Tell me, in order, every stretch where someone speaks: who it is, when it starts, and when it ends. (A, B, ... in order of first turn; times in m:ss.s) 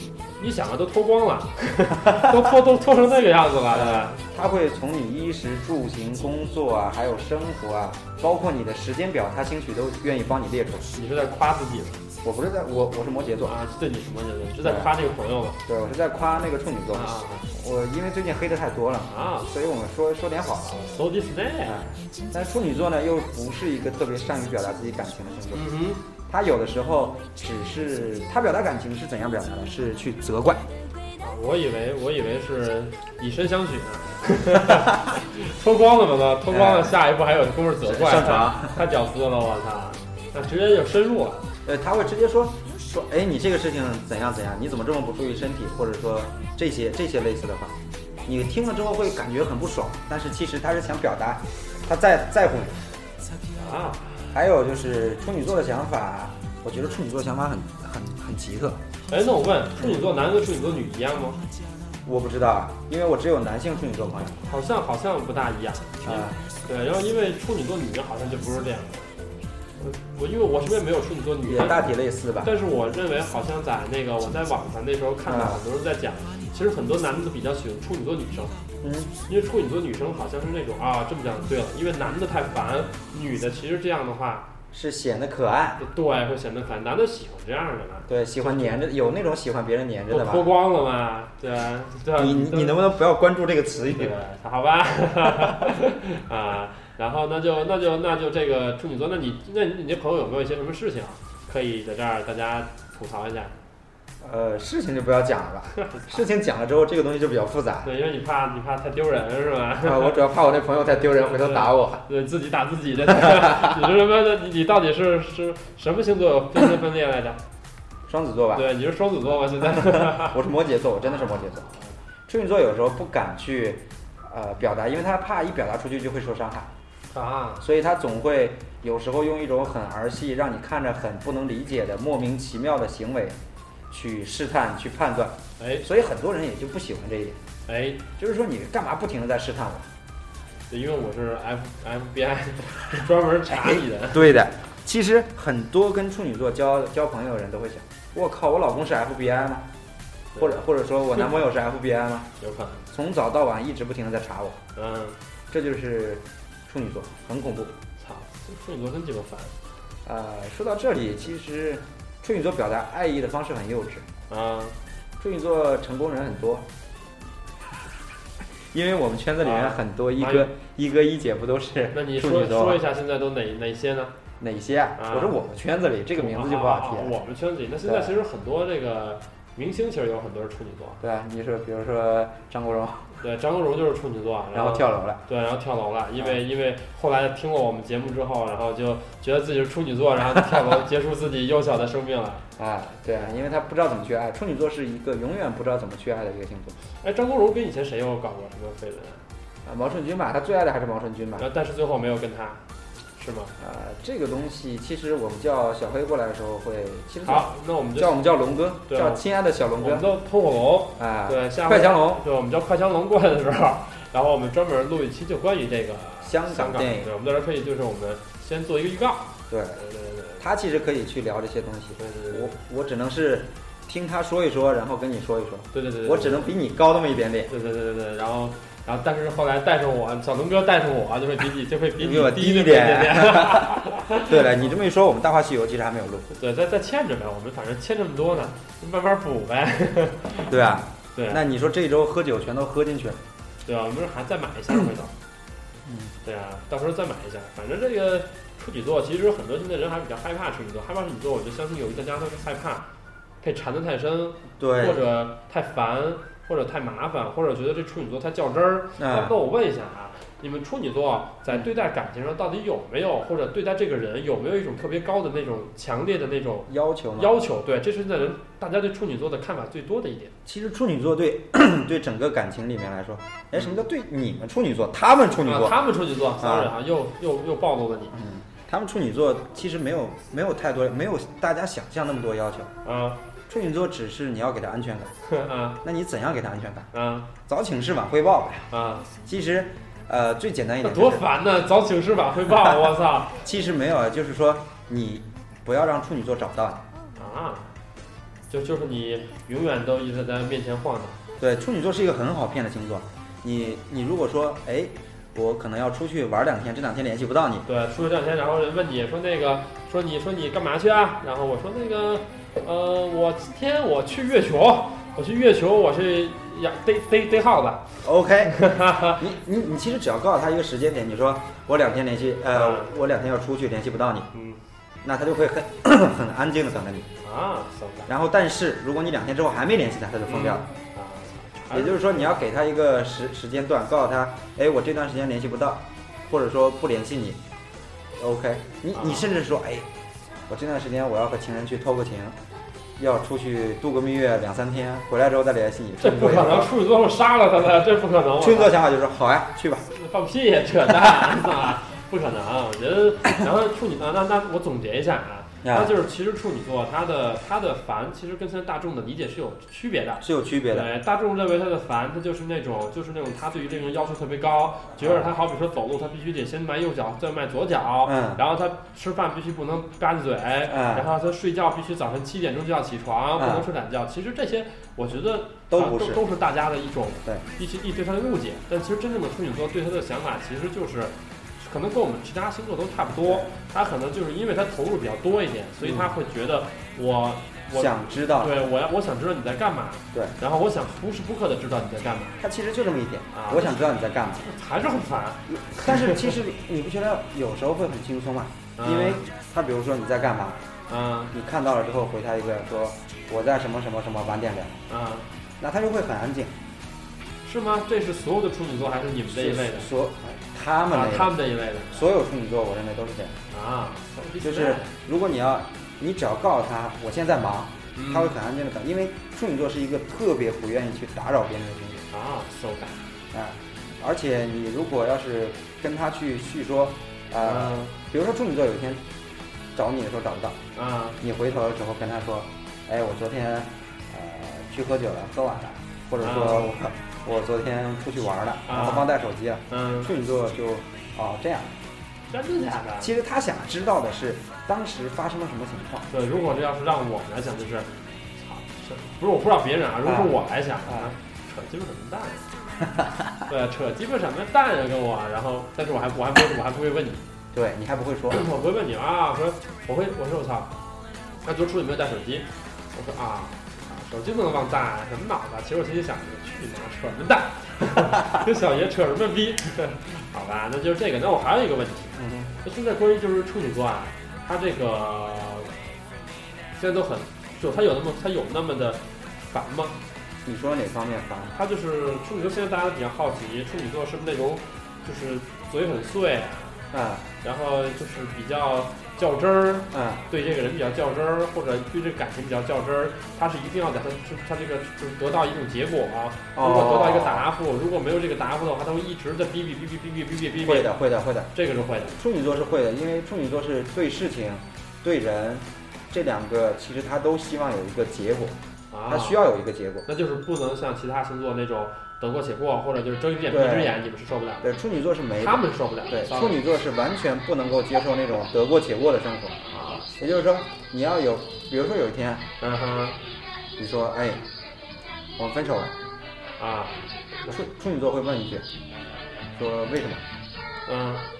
0:00.4-0:04.2 A
0:03.7-0:10.9 B
0:10.9-0:12.0 A
0:12.2-0:13.6 B
0:13.4-0:15.6 A
0:14.6-0:14.9 B
0:15.7-0:20.8 B
0:16.9-0:17.5 A
0:19.1-0:19.5 A
0:20.7-0:21.8 A
0:21.6-0:25.7 B
0:25.5-0:26.0 A
0:26.2-0:30.6 B
0:31.2-0:41.5 A
0:36.5-0:37.0 B
0:37.8-0:38.8 B
0:41.6-0:52.8 B
0:53.5-0:54.2 A
0:54.3-0:58.8 B
0:59.1-1:01.4 A
0:59.8-1:00.1 B
1:02.0-1:04.4 B
1:04.4-1:09.1 A
1:06.0-1:06.4 B
1:09.8-1:11.8 A
1:11.4-1:12.5 B
1:12.4-1:18.6 A
1:15.3-1:15.6 B
1:18.8-1:19.1 B
1:19.3-1:24.4 A
1:24.7-1:25.8 B
1:25.8-1:28.8 A
1:28.1-1:30.5 B
1:30.1-1:32.8 A
1:32.2-1:34.2 B
1:34.0-1:43.6 A
1:44.2-1:47.9 B
1:47.8-1:50.2 A
1:49.8-1:52.0 B
1:51.2-1:57.4 A
1:53.1-1:53.9 B
1:58.1-1:58.7 B
1:58.5-2:00.4 A
1:59.8-2:01.7 B
2:01.0-2:01.9 A
2:02.3-2:06.7 B
2:07.1-2:07.6 A
2:07.6-2:13.4 B
2:13.9-2:17.4 B
2:15.6-2:15.8 A
2:17.7-2:18.0 A
2:18.2-2:19.9 B
2:20.7-2:24.4 A
2:23.5-2:29.7 B
2:30.3-2:31.4 A
2:30.4-2:32.3 B
2:32.4-2:32.8 A
2:32.9-2:34.6 B
2:34.8-2:35.2 A
2:35.5-2:37.8 B
2:38.0-2:39.5 A
2:40.0-2:44.1 B
2:44.3-2:44.8 A
2:45.2-2:46.7 B
2:48.7-2:52.8 B
2:49.4-2:50.5 A
2:51.9-2:54.1 A
2:54.4-2:57.2 B
2:55.0-2:55.4 A
2:56.2-3:01.0 A
2:57.8-2:58.1 B
3:01.0-3:03.2 B
3:03.2-3:12.4 A
3:04.5-3:05.2 B
3:12.6-3:16.8 B
3:17.0-3:19.2 A
3:19.6-3:21.5 B
3:21.4-3:22.6 A
3:23.2-3:23.6 A
3:23.6-3:30.1 B
3:27.2-3:28.2 A
3:28.9-3:29.2 A
3:29.8-3:40.4 A
3:31.0-3:32.2 B
3:36.2-3:37.1 B
3:39.5-3:39.8 B
3:40.4-3:47.5 B
3:42.0-3:42.5 A
3:45.7-3:46.5 A
3:47.5-3:54.6 A
3:52.0-3:56.3 B
3:56.3-4:00.6 A
4:00.5-4:03.2 B
4:01.1-4:01.4 A
4:03.6-4:05.1 A
4:05.8-4:06.1 B
4:06.2-4:12.8 A
4:13.4-4:30.3 A
4:14.6-4:15.0 B
4:19.0-4:19.3 B
4:26.7-4:27.4 B
4:30.4-4:35.8 B
4:35.4-4:38.1 A
4:36.4-4:36.7 B
4:38.1-4:42.7 B
4:42.8-4:43.2 A
4:43.5-4:45.1 B
4:45.3-4:45.8 A
4:45.8-4:46.9 B
4:46.9-4:47.3 A
4:47.4-4:48.7 B
4:48.7-4:49.1 A
4:49.2-4:51.2 B
4:50.8-4:53.4 A
4:53.4-4:56.8 B
4:57.2-4:57.7 A
4:58.5-5:01.2 A
5:01.4-5:07.7 B
5:07.7-5:17.9 A
5:18.0-5:24.3 B
5:18.5-5:19.2 A
5:22.5-5:22.9 A
5:24.3-5:24.6 A
5:25.0-5:27.1 B
5:27.2-5:28.1 A
5:28.1-5:30.7 B
5:30.3-5:32.3 A
5:31.7-5:37.4 B
5:38.2-5:39.9 B
5:38.9-5:39.3 A
5:40.5-5:42.4 B
5:43.0-5:46.7 B
5:46.0-5:48.7 A
5:48.4-5:49.8 B
5:49.9-6:32.4 A
5:55.6-5:55.9 B
6:00.2-6:00.9 B
6:05.0-6:05.3 B
6:08.0-6:08.4 B
6:10.7-6:11.1 B
6:13.4-6:13.7 B
6:15.7-6:16.2 B
6:23.1-6:23.5 B
6:25.8-6:26.1 B
6:27.7-6:28.6 B
6:32.4-6:34.5 B
6:33.3-6:36.2 A
6:35.5-6:40.6 B
6:38.8-6:39.2 A
6:40.9-6:41.3 A
6:41.3-6:44.8 B
6:44.9-6:45.2 A
6:45.6-6:46.6 B
6:47.4-6:49.9 A
6:49.3-6:51.4 B
6:50.9-6:52.0 A
6:51.9-6:53.4 B
6:53.5-6:54.9 A
6:54.4-7:02.1 B
6:58.0-6:58.4 A
7:02.1-7:03.1 A
7:03.3-7:09.0 B
7:07.4-7:07.9 A
7:09.7-7:10.6 B
7:10.7-7:11.2 A
7:11.2-7:21.8 B
7:16.2-7:16.7 A
7:18.7-7:19.1 A
7:19.7-7:20.1 A
7:22.3-7:23.1 A
7:23.0-7:26.1 B
7:26.1-7:32.4 A
7:30.0-7:31.1 B
7:32.8-7:33.3 B
7:33.5-7:37.2 A
7:37.5-7:38.4 B
7:38.3-7:40.7 A
7:41.4-7:55.8 A
7:52.2-7:52.6 B
7:56.7-8:00.0 A
8:00.4-8:01.6 B
8:01.6-8:06.8 A
8:06.9-8:07.3 B
8:07.4-8:20.9 A
8:09.9-8:10.2 B
8:16.6-8:17.5 B
8:20.6-8:21.5 B
8:21.5-8:22.2 A
8:22.1-8:30.1 B
8:28.9-8:29.4 A
8:30.1-8:34.7 A
8:33.5-8:34.0 B
8:34.6-8:39.6 B
8:35.4-8:36.6 A
8:39.6-8:40.1 A
8:40.2-8:42.4 B
8:42.6-8:43.2 A
8:43.8-8:44.4 B
8:45.4-8:45.9 B
8:46.6-8:47.6 A
8:47.5-8:48.6 B
8:49.5-8:50.2 B
8:50.9-8:51.2 A